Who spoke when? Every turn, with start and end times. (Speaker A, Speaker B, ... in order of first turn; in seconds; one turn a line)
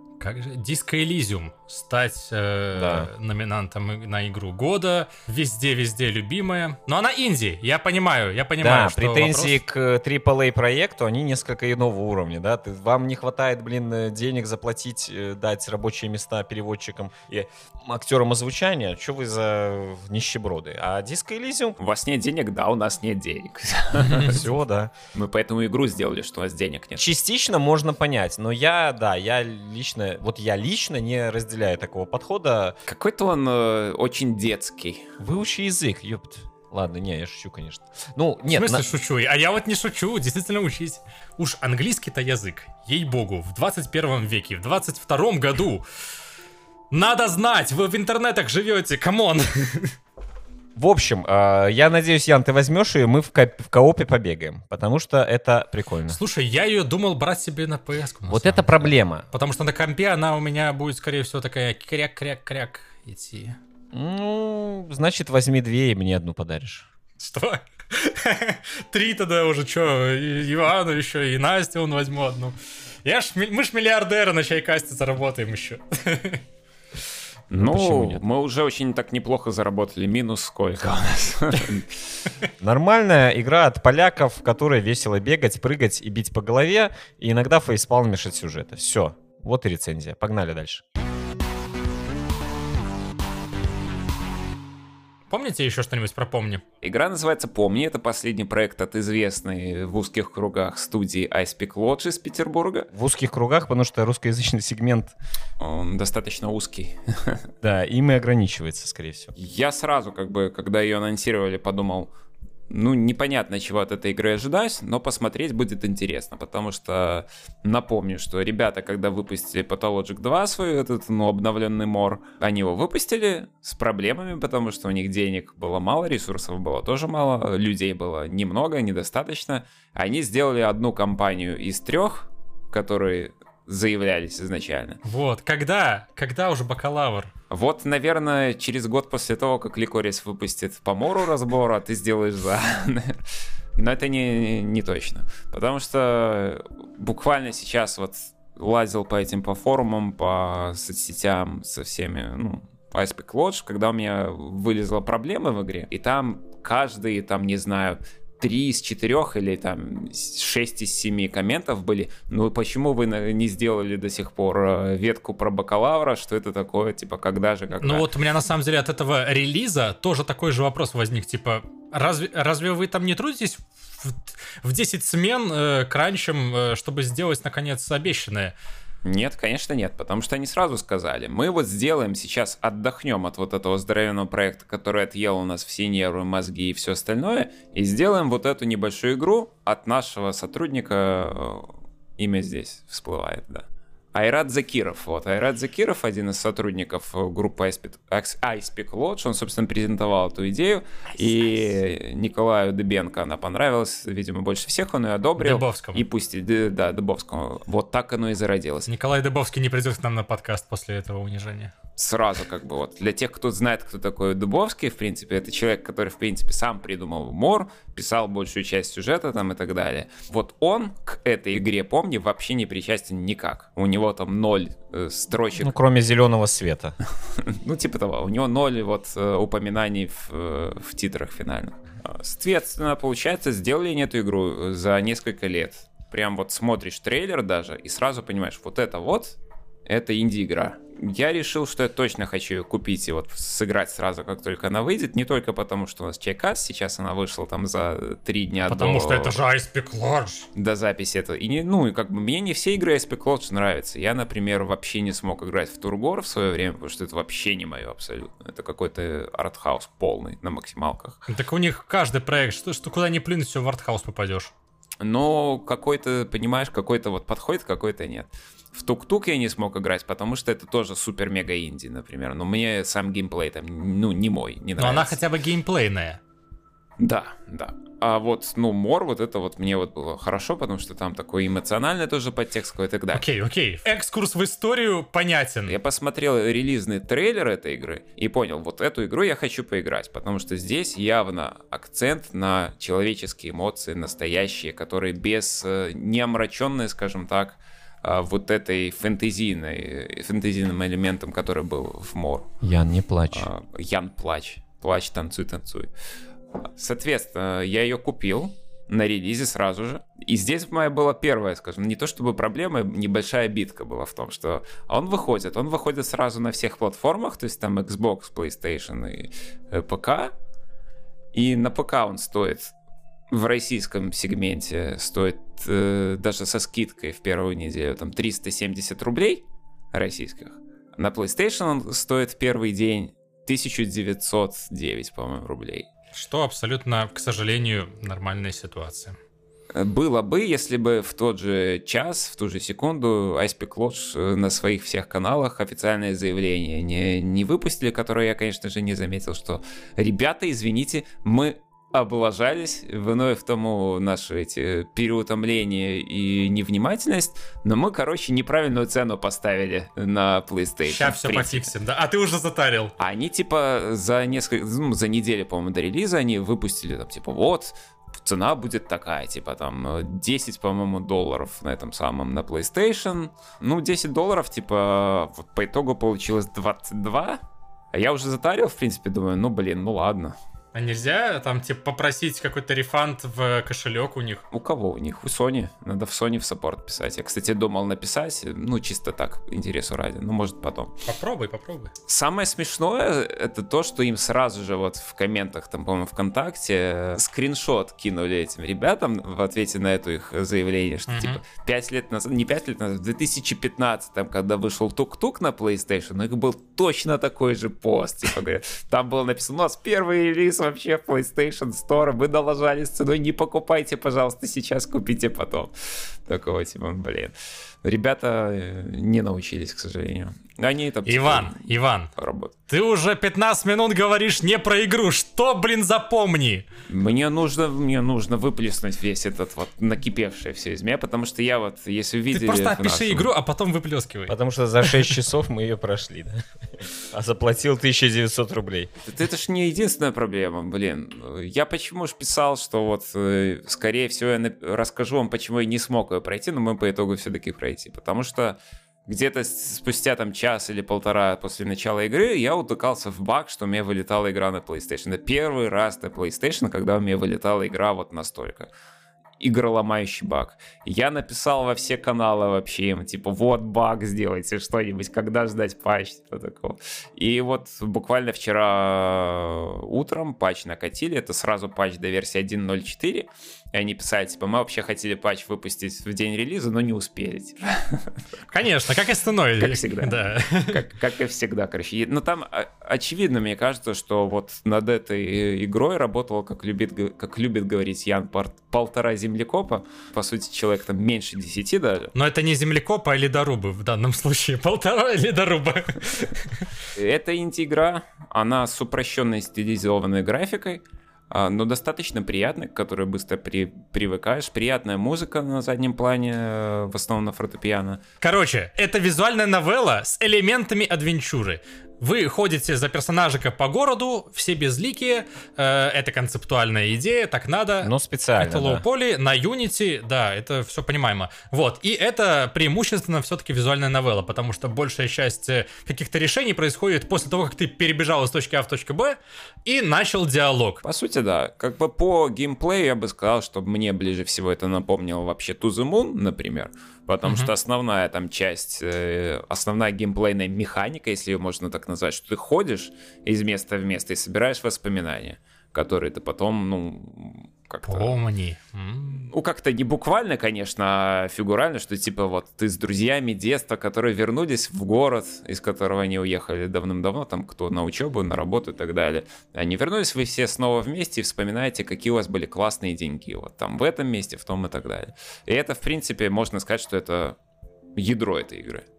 Speaker A: 0.2-9.6
Speaker B: 2.7-3.1
Speaker B: 8.6-21.8
Speaker C: 21.8-24.4
Speaker B: 24.1-24.9
Speaker C: 25.1-27.1
Speaker B: 27.0-32.8
Speaker C: 32.9-35.1
Speaker B: 35.2-38.9
Speaker A: 38.5-45.8
Speaker A: 46.9-49.9
Speaker B: 50.8-56.2
Speaker A: 56.1-63.6
Speaker B: 58.3-59.2
Speaker B: 63.9-66.8
Speaker A: 67.2-76.4
Speaker C: 77.5-81.9
Speaker B: 77.5-78.2
Speaker B: 82.6-90.8
Speaker A: 95.3-96.6
Speaker C: 96.8-102.9
Speaker B: 102.9-105.1
Speaker C: 105.6-107.5
Speaker B: 107.6-109.3
Speaker C: 109.3-112.1
Speaker C: 112.7-135.0
Speaker A: 135.0-137.3
Speaker C: 137.5-143.2
Speaker C: 143.8-168.1
Speaker A: 167.8-178.5
Speaker C: 179.0-208.9
Speaker A: 205.4-206.0
Speaker A: 208.9-211.7
Speaker C: 212.0-225.7
Speaker B: 225.6-226.9
Speaker C: 227.3-249.4
Speaker A: 248.6-250.5
Speaker C: 250.6-261.3
Speaker A: 261.3-264.5
Speaker C: 265.0-275.2
Speaker A: 274.8-276.2
Speaker C: 277.0-283.2
Speaker A: 283.1-285.7
Speaker C: 285.7-302.5
Speaker B: 302.6-303.5
Speaker C: 303.3-305.9
Speaker C: 306.6-320.3
Speaker C: 321.3-322.7
Speaker C: 323.3-335.9
Speaker A: 336.1-339.2
Speaker C: 339.7-361.7
Speaker A: 360.9-362.9
Speaker C: 363.0-377.4
Speaker C: 377.9-380.3
Speaker A: 380.7-384.4
Speaker C: 384.5-390.9
Speaker A: 391.1-391.9
Speaker C: 392.1-422.6
Speaker A: 401.1-401.4
Speaker A: 421.1-422.1
Speaker A: 422.7-426.6
Speaker C: 426.9-433.3
Speaker A: 432.3-435.1
Speaker B: 434.3-438.9
Speaker C: 439.0-458.7
Speaker C: 459.4-478.2
Speaker A: 478.5-480.8
Speaker C: 479.6-492.1
Speaker A: 492.1-496.7
Speaker C: 496.9-508.0
Speaker A: 508.2-530.8
Speaker B: 517.8-518.8
Speaker C: 530.8-548.1
Speaker A: 537.2-537.5
Speaker A: 547.9-549.3
Speaker C: 549.3-567.4
Speaker C: 568.0-568.9